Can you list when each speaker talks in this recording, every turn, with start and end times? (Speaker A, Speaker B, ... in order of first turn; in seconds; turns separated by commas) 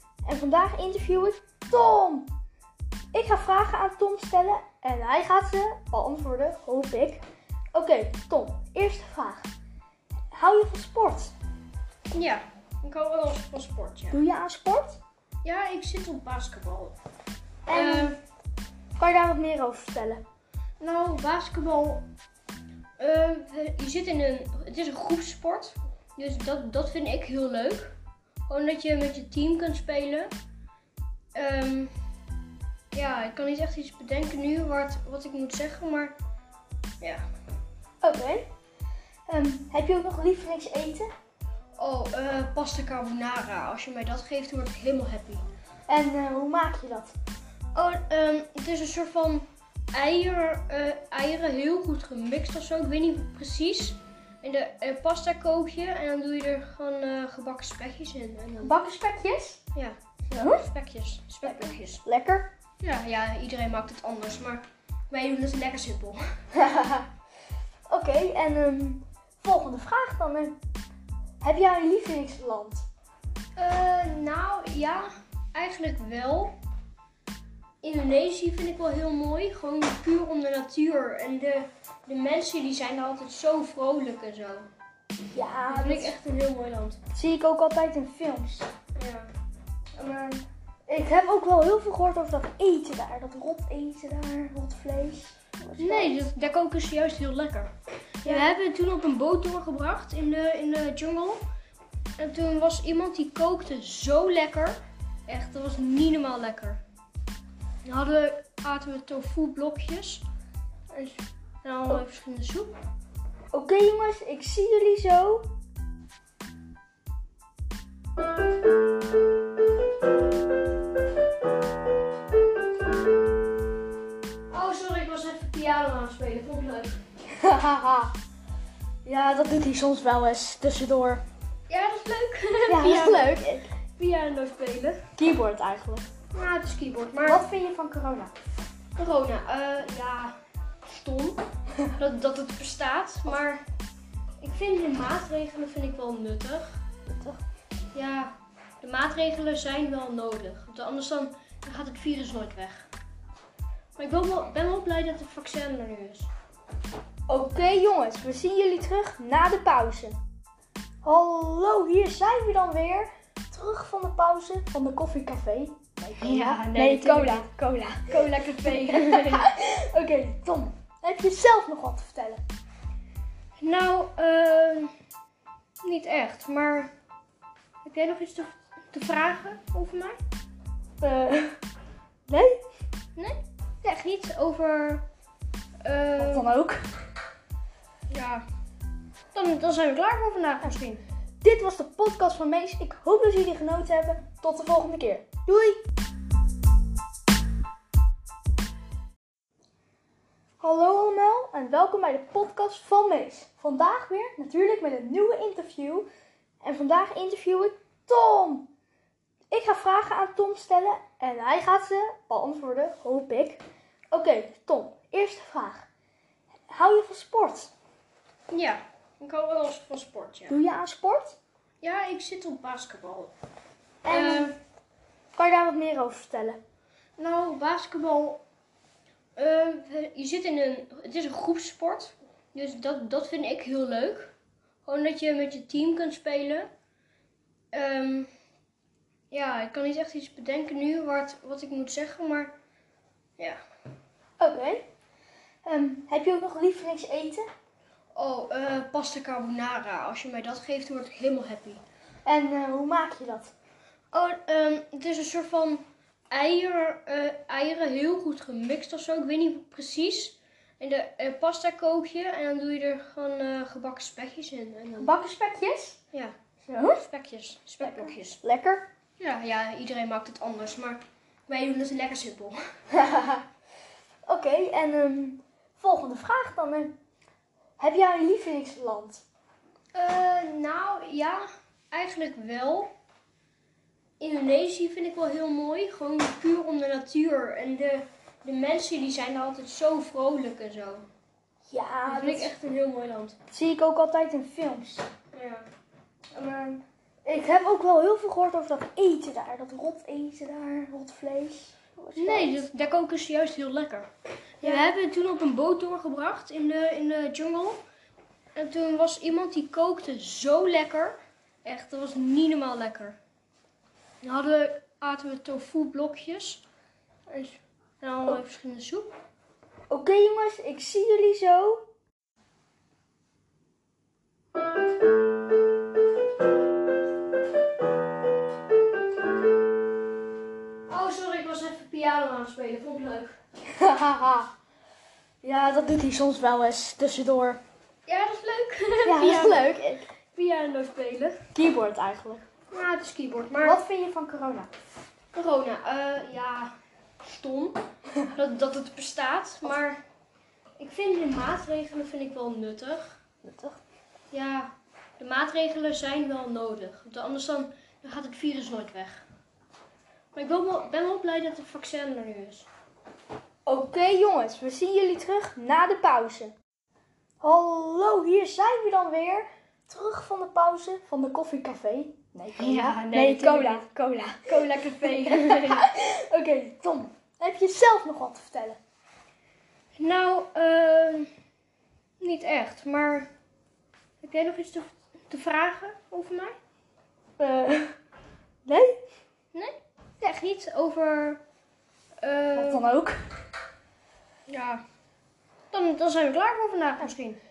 Speaker A: 0.2-2.3, Speaker A: 3.1-7.2, Speaker A: 7.7-9.5, Speaker A: 10.3-11.3, Speaker B: 12.1-14.2, Speaker A: 14.1-15.0, Speaker B: 15.4-16.9, Speaker A: 17.6-18.2, Speaker B: 17.7-18.1, Speaker A: 18.9-20.2, Speaker B: 20.8-22.1, Speaker B: 23.0-27.9, Speaker B: 28.5-30.3, Speaker B: 31.3-31.9, Speaker B: 32.9-36.1, Speaker A: 38.0-38.5, Speaker A: 39.3-41.1, Speaker B: 41.8-45.4, Speaker A: 45.9-47.1, Speaker B: 47.7-58.7, Speaker A: 58.6-59.6, Speaker B: 59.7-62.0, Speaker A: 60.3-60.6, Speaker A: 61.4-62.5, Speaker B: 62.8-66.2, Speaker A: 66.5-67.1, Speaker A: 67.9-70.6, Speaker A: 71.4-72.9, Speaker B: 73.5-76.6, Speaker B: 77.8-84.7, Speaker A: 85.3-86.2, Speaker B: 85.7-87.0, Speaker A: 87.1-88.7, Speaker B: 89.0-89.3, Speaker A: 90.0-96.2, Speaker B: 95.8-97.7, Speaker B: 98.2-101.4, Speaker A: 98.2-98.5, Speaker B: 102.2-106.8, Speaker B: 107.8-110.2, Speaker B: 110.9-112.7, Speaker A: 113.5-115.5, Speaker B: 124.5-127.0, Speaker A: 127.3-128.1, Speaker A: 129.0-131.2, Speaker B: 131.7-133.4, Speaker A: 132.7-133.7, Speaker B: 133.9-135.0, Speaker A: 135.2-136.1, Speaker B: 136.3-137.4, Speaker A: 137.2-138.3, Speaker B: 138.9-143.6, Speaker B: 144.4-146.8, Speaker A: 147.1-147.4, Speaker B: 147.9-152.9, Speaker B: 153.9-156.3, Speaker A: 157.3-160.2, Speaker A: 161.0-172.4, Speaker B: 166.2-167.5, Speaker B: 168.0-169.5, Speaker B: 173.6-174.9, Speaker B: 175.8-176.9, Speaker B: 177.8-180.2, Speaker A: 181.0-181.6, Speaker A: 182.3-182.6, Speaker B: 183.2-185.0, Speaker B: 185.8-186.5, Speaker A: 186.2-186.8, Speaker B: 188.1-188.4, Speaker B: 189.3-191.0, Speaker A: 191.4-195.8, Speaker A: 200.6-206.1, Speaker A: 206.6-208.7, Speaker A: 209.5-215.9, Speaker A: 216.7-217.7, Speaker B: 218.5-220.6, Speaker A: 220.5-221.4, Speaker B: 221.8-223.3, Speaker A: 224.0-224.5, Speaker B: 224.1-224.5, Speaker A: 225.3-226.6, Speaker B: 227.2-228.4, Speaker B: 229.3-234.3, Speaker B: 234.8-236.7, Speaker B: 237.7-238.3, Speaker B: 239.3-242.5, Speaker A: 244.4-244.8, Speaker A: 245.6-247.4, Speaker B: 248.1-251.8, Speaker A: 252.2-253.5, Speaker B: 254.1-265.1, Speaker A: 265.0-266.0, Speaker B: 266.1-268.4, Speaker A: 266.6-267.0, Speaker A: 267.8-268.9, Speaker B: 269.2-272.6, Speaker A: 272.9-273.4, Speaker A: 274.2-277.0, Speaker A: 277.8-279.2, Speaker B: 279.9-282.9, Speaker B: 284.2-291.1, Speaker A: 291.7-292.5, Speaker B: 292.1-293.4, Speaker A: 293.5-295.1, Speaker B: 295.3-295.6, Speaker A: 296.3-302.6, Speaker B: 302.1-304.1, Speaker B: 304.6-307.8, Speaker A: 304.6-304.9, Speaker B: 308.6-313.2, Speaker B: 314.2-316.6, Speaker B: 317.3-319.1, Speaker A: 319.9-321.8, Speaker B: 330.9-333.4, Speaker A: 333.7-334.5, Speaker A: 335.4-337.6, Speaker B: 338.1-339.8, Speaker A: 339.0-340.1, Speaker B: 340.3-341.4, Speaker A: 341.5-342.4, Speaker B: 342.7-343.8, Speaker A: 343.6-344.7, Speaker B: 345.3-350.0, Speaker B: 350.8-353.1, Speaker A: 353.4-353.8, Speaker B: 354.3-359.2, Speaker B: 360.3-362.7, Speaker A: 363.6-366.5, Speaker A: 367.4-378.8, Speaker B: 372.6-373.9, Speaker B: 374.4-375.9, Speaker B: 379.9-381.3, Speaker B: 382.2-383.3, Speaker B: 384.2-386.5, Speaker A: 387.4-387.9, Speaker A: 388.6-389.0, Speaker B: 389.5-391.4, Speaker B: 392.2-392.9, Speaker A: 392.5-393.2, Speaker B: 394.5-394.8, Speaker B: 395.7-397.4